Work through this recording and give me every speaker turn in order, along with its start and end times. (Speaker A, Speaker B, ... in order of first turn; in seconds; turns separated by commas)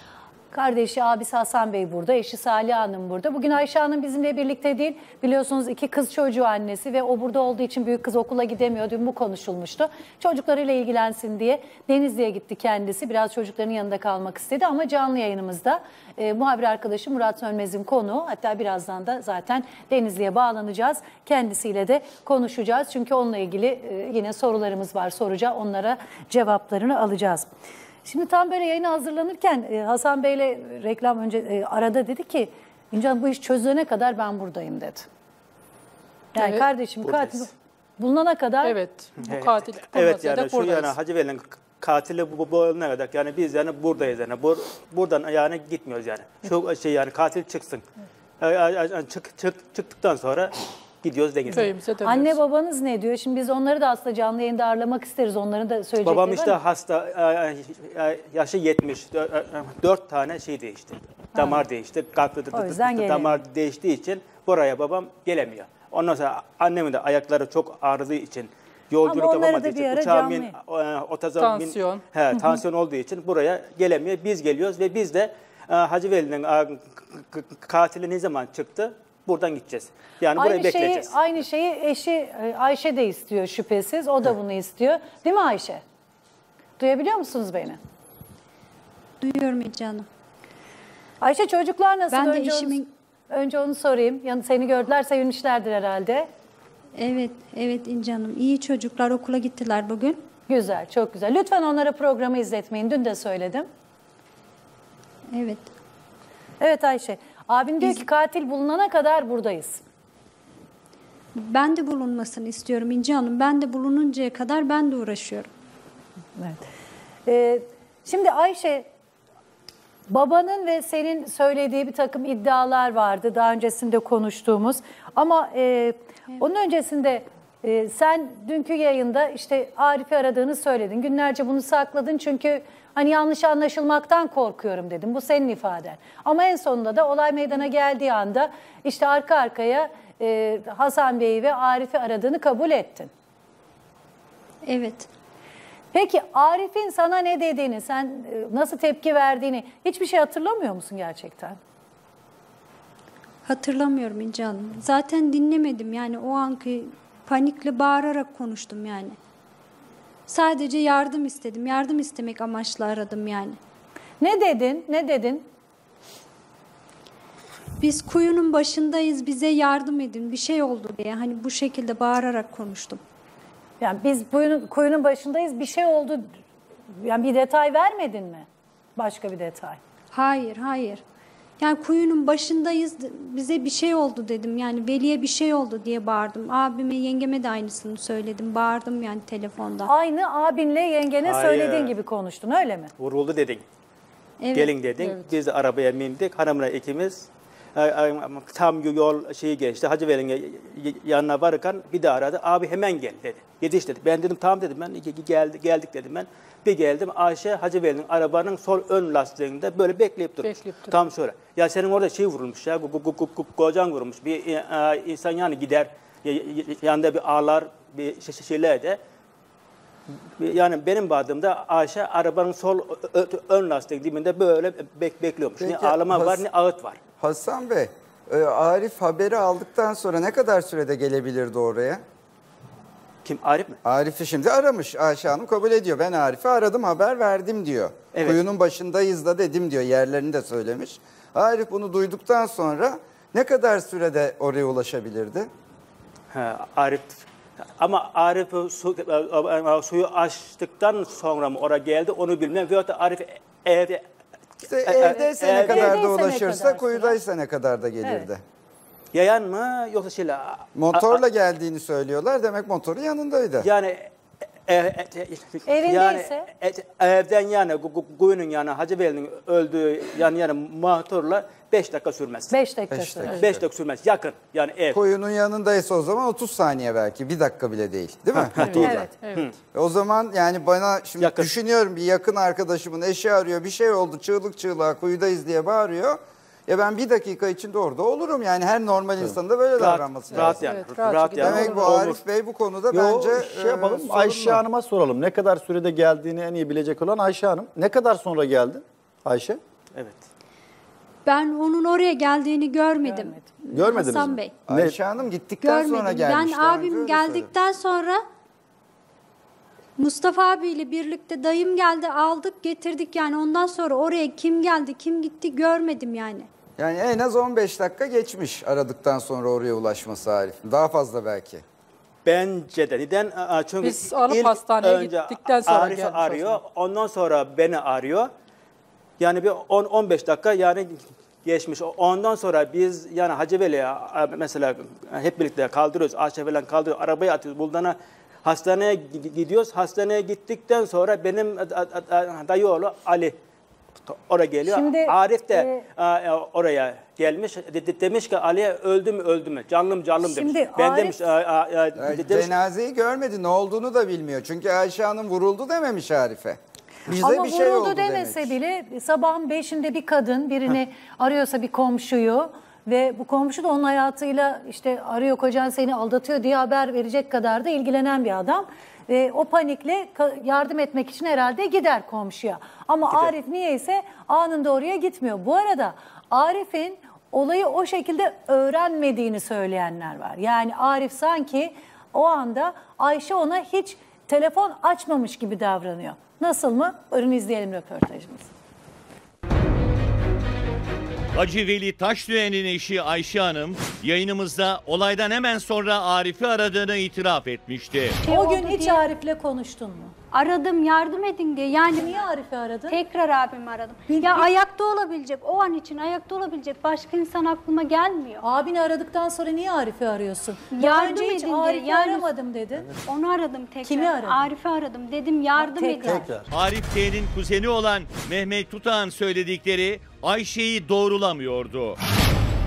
Speaker A: 0.5-27.5, Speaker A: 28.0-35.1, Speaker B: 36.3-36.7, Speaker A: 36.3-38.8, Speaker C: 37.0-37.3, Speaker B: 38.6-40.9, Speaker C: 39.2-47.8, Speaker C: 48.4-51.8, Speaker B: 51.5-52.3, Speaker A: 52.0-56.6, Speaker C: 56.0-81.2, Speaker A: 61.3-61.6, Speaker A: 62.5-63.4, Speaker A: 69.0-70.5, Speaker B: 71.4-72.1, Speaker A: 80.3-85.8, Speaker A: 86.8-87.8, Speaker D: 89.2-90.1, Speaker A: 91.2-96.3, Speaker D: 92.1-92.9, Speaker D: 97.0-100.2, Speaker A: 100.5-103.7, Speaker D: 105.3-105.7, Speaker A: 106.6-109.8, Speaker D: 111.3-115.5, Speaker A: 116.4-116.6, Speaker A: 117.2-118.9, Speaker A: 120.1-143.1, Speaker D: 144.6-145.1, Speaker A: 145.9-151.6, Speaker D: 153.4-159.2, Speaker D: 160.3-163.6, Speaker A: 164.2-165.4, Speaker D: 167.8-173.0, Speaker A: 173.8-176.3, Speaker A: 176.9-179.8, Speaker D: 180.1-181.0, Speaker D: 181.6-189.9, Speaker A: 189.8-192.9, Speaker C: 191.2-191.9, Speaker C: 193.0-193.6, Speaker D: 194.4-194.7, Speaker C: 194.5-219.0, Speaker B: 210.4-211.0, Speaker C: 220.4-227.0, Speaker E: 225.6-226.4, Speaker E: 227.2-232.0, Speaker C: 233.2-233.8, Speaker E: 233.8-245.5, Speaker C: 238.1-238.4, Speaker C: 246.3-247.2, Speaker C: 247.8-254.1, Speaker E: 254.6-258.4, Speaker C: 254.8-256.0, Speaker A: 255.1-257.2, Speaker A: 258.0-258.3, Speaker C: 259.1-261.2, Speaker E: 260.7-263.7, Speaker C: 263.6-264.1, Speaker C: 264.7-272.5, Speaker A: 265.6-266.5, Speaker A: 272.5-273.4, Speaker E: 272.9-273.6, Speaker C: 273.3-275.0, Speaker E: 274.9-279.1, Speaker C: 278.5-278.8, Speaker B: 278.6-279.5, Speaker A: 278.8-279.1, Speaker E: 279.7-290.7, Speaker C: 281.2-281.5, Speaker C: 289.8-292.2, Speaker B: 290.5-292.0, Speaker E: 291.4-294.6, Speaker F: 292.9-299.6, Speaker C: 299.9-300.2, Speaker D: 301.2-304.5, Speaker A: 303.0-303.4, Speaker F: 303.7-304.9, Speaker E: 304.7-307.5, Speaker D: 305.6-308.2, Speaker D: 310.0-316.5, Speaker E: 316.8-321.6, Speaker C: 322.2-328.3, Speaker B: 323.8-326.6, Speaker C: 329.2-343.4, Speaker C: 344.1-352.5, Speaker A: 344.6-345.8, Speaker A: 350.2-351.2, Speaker E: 352.0-358.5, Speaker A: 357.2-388.5, Speaker G: 391.3-398.2, Speaker D: 398.2-399.0, Speaker A: 398.2-400.1, Speaker D: 400.3-402.3, Speaker A: 401.9-403.0, Speaker D: 402.9-408.4, Speaker A: 404.1-404.5, Speaker A: 408.4-412.9, Speaker D: 410.7-412.3, Speaker D: 413.1-416.3, Speaker A: 413.8-414.4, Speaker A: 415.6-416.3, Speaker F: 416.0-416.5, Speaker G: 416.5-422.0